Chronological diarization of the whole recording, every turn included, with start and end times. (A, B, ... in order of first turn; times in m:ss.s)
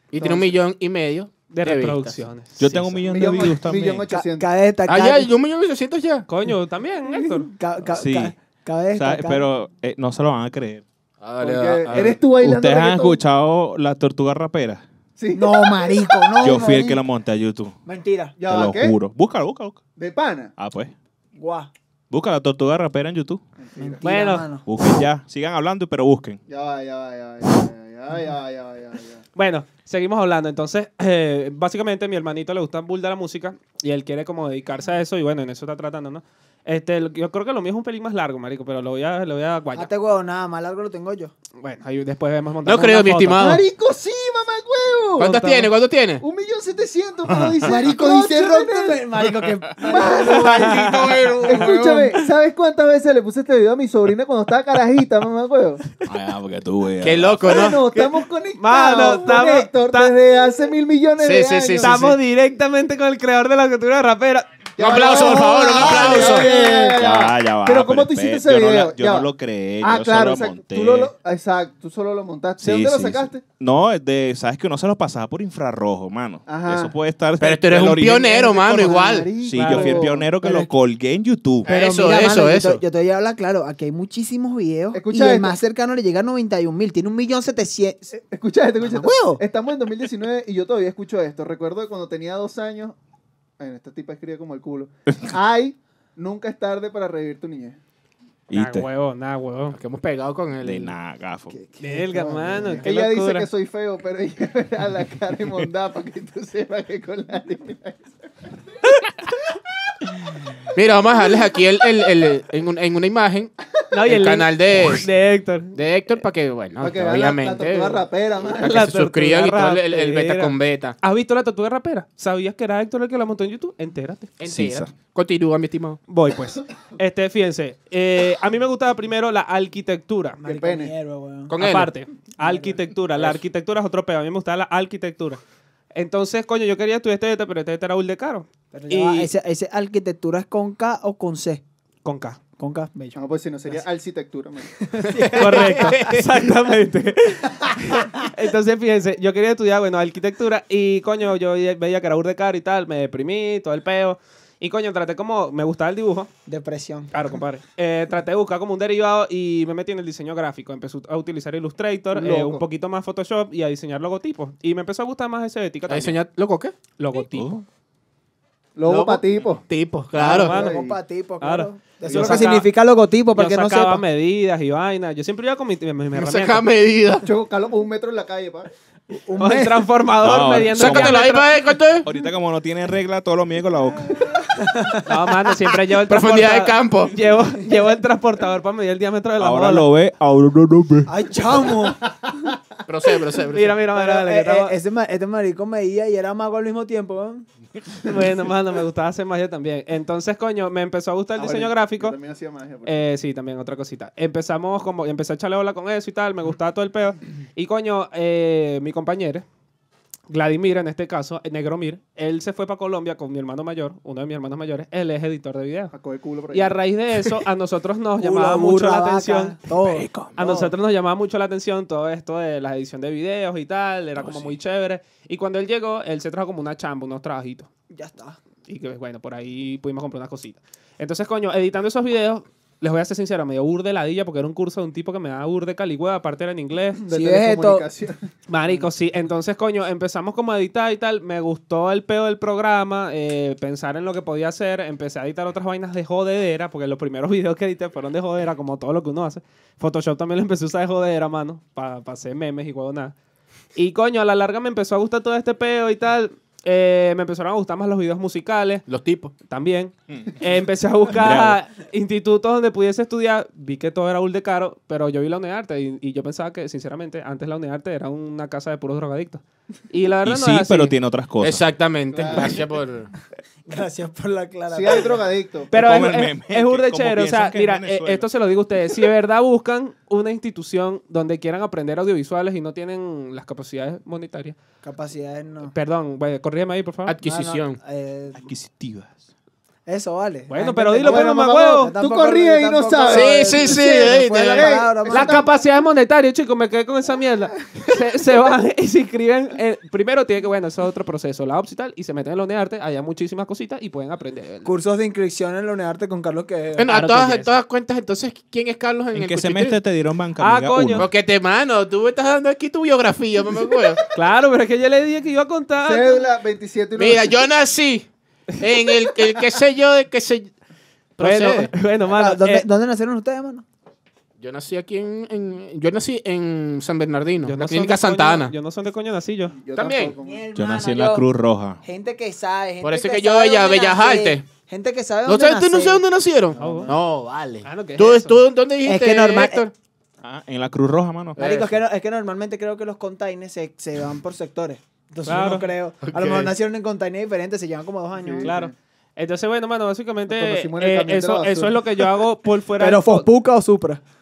0:00.1-0:02.2 A
0:00.2-0:00.6 B
0:01.5-0:03.1 C
0:02.6-0:04.1 D
0:03.1-0:04.5 B
0:04.1-0:05.3 E
0:04.9-0:06.3 A
0:06.3-0:07.5 C
0:07.1-0:09.4 E
0:08.0-0:08.4 D
0:09.0-0:10.8 D
0:11.2-0:12.2 A
0:11.4-0:13.2 B
0:12.1-0:14.8 D
0:15.2-0:16.8 B
0:15.3-0:17.0 E
0:16.4-0:17.8 D
0:17.9-0:18.4 E
0:18.4-0:19.0 B
0:18.4-0:19.8 D
0:20.0-0:20.5 B
0:20.6-0:20.9 D
0:21.4-0:21.7 E
0:22.1-0:23.4 D
0:23.6-0:24.0 B
0:23.8-0:24.7 E
0:24.0-0:24.5 C
0:24.6-0:26.4 D
0:26.5-0:29.2 B
0:29.4-0:39.9 C
0:39.8-0:41.3 E
0:41.6-0:43.5 C
0:42.6-0:43.6 A
0:43.3-0:45.5 B
0:45.2-0:46.2 A
0:45.2-0:45.7 C
0:46.2-0:49.0 B
0:47.3-0:47.7 D
0:47.6-0:52.1 E
0:49.2-0:49.8 D
0:49.8-0:50.8 B
0:50.2-0:51.8 C
0:51.4-0:55.8 B
0:56.1-0:57.6 D
0:57.0-0:57.9 A
0:57.4-1:02.2 B
0:58.6-1:00.2 C
1:01.2-1:02.2 A
1:01.8-1:05.2 C
1:04.8-1:13.4 B
1:04.8-1:06.5 A
1:05.6-1:06.9 E
1:05.8-1:11.1 D
1:12.6-1:21.7 D
1:16.5-1:17.0 B
1:17.4-1:19.3 A
1:18.1-1:20.2 B
1:19.6-1:20.2 C
1:20.4-1:20.7 E
1:21.6-1:28.1 E
1:21.7-1:22.8 A
1:24.9-1:25.6 B
1:28.2-1:33.0 B
1:28.8-1:29.4 E
1:33.6-1:37.8 B
1:38.5-1:38.9 D
1:38.5-1:39.8 C
1:39.7-1:41.0 A
1:40.6-1:41.6 D
1:41.5-1:42.9 E
1:41.8-1:43.5 C
1:42.8-1:48.0 B
1:50.7-1:53.5 A
1:53.9-1:55.8 C
1:54.1-1:55.1 A
1:55.8-2:01.0 A
1:56.8-1:58.8 B
1:58.6-2:04.3 C
2:04.4-2:06.0 A
2:04.5-2:04.9 D
2:06.1-2:10.4 C
2:10.4-2:11.5 E
2:10.4-2:10.9 B
2:11.5-2:11.9 A
2:11.6-2:15.4 C
2:12.4-2:12.8 E
2:15.9-2:19.3 C
2:18.7-2:21.6 E
2:22.0-2:22.4 C
2:22.6-2:23.2 E
2:23.1-2:25.2 B
2:24.8-2:26.2 E
2:25.3-2:36.3 C
2:36.5-2:37.1 E
2:37.1-2:46.2 C
2:42.1-2:42.6 B
2:45.9-2:46.8 A
2:47.0-2:47.6 C
2:47.3-2:47.6 D
2:48.8-2:49.6 B
2:48.9-2:50.6 A
2:50.2-2:54.0 E
2:50.2-2:50.8 C
2:50.3-2:51.0 B
2:51.4-2:52.7 C
2:52.1-2:52.6 B
2:53.4-2:56.6 C
2:56.2-2:57.3 A
2:57.2-2:58.7 B
2:59.1-2:59.9 E
2:59.4-3:01.5 C
3:00.2-3:01.4 D
3:00.8-3:02.1 A
3:02.0-3:04.6 D
3:04.6-3:05.1 E
3:05.0-3:09.9 C
3:06.1-3:07.2 A
3:09.4-3:11.1 D
3:11.1-3:12.0 E
3:12.9-3:13.8 A
3:13.5-3:14.8 C
3:13.9-3:17.5 E
3:18.0-3:22.2 C
3:21.4-3:23.0 B
3:22.8-3:29.4 C
3:30.3-3:35.9 C
3:35.9-3:36.8 B
3:36.5-3:39.6 C
3:38.2-3:40.7 E
3:39.8-3:40.3 D
3:40.4-3:47.7 C
3:44.2-3:44.5 D
3:47.9-3:48.4 E
3:48.7-3:57.0 C
3:57.0-3:58.3 B
3:57.1-3:57.9 E
3:58.5-4:13.2 C
4:13.8-4:18.8 C
4:18.9-4:19.3 A
4:19.5-4:31.0 C
4:20.1-4:20.4 D
4:21.1-4:21.6 D
4:30.2-4:31.7 D
4:31.4-4:33.1 A
4:32.1-4:32.6 B
4:33.7-4:35.3 E
4:34.7-4:35.8 B
4:35.7-4:44.6 C
4:35.7-4:38.3 D
4:44.8-4:45.7 E
4:45.6-4:47.2 C
4:47.1-4:47.8 A
4:47.2-4:48.4 E
4:48.4-4:49.2 D
4:49.9-4:55.4 E
4:50.5-4:51.9 C
4:51.0-4:55.5 B
4:53.1-4:54.7 A
4:55.1-5:04.7 C
5:04.6-5:06.9 E
5:06.8-5:09.8 A
5:06.9-5:07.5 C
5:09.1-5:11.1 D
5:10.4-5:11.1 C
5:11.0-5:14.0 A
5:14.1-5:16.2 C
5:15.8-5:17.4 B
5:17.0-5:20.5 A
5:21.2-5:21.7 A
5:21.2-5:22.7 C
5:22.0-5:23.6 E
5:24.4-5:28.5 A
5:27.4-5:29.6 C
5:29.6-5:30.5 B
5:29.8-5:30.2 A
5:30.2-5:31.3 E
5:30.6-5:31.8 D
5:31.8-5:36.0 E
5:32.8-5:34.5 A
5:35.3-5:39.7 A
5:36.6-5:36.9 B
5:36.6-5:36.9 C
5:36.6-5:36.9 E
5:37.6-5:38.4 C
5:38.8-5:39.6 E
5:40.2-5:41.4 D
5:41.4-5:41.8 A
5:41.4-5:48.5 E
5:45.3-5:45.7 C
5:46.0-5:46.5 A
5:48.2-5:48.7 B
5:48.4-5:53.3 C
5:50.3-5:52.1 B
5:52.8-5:54.0 E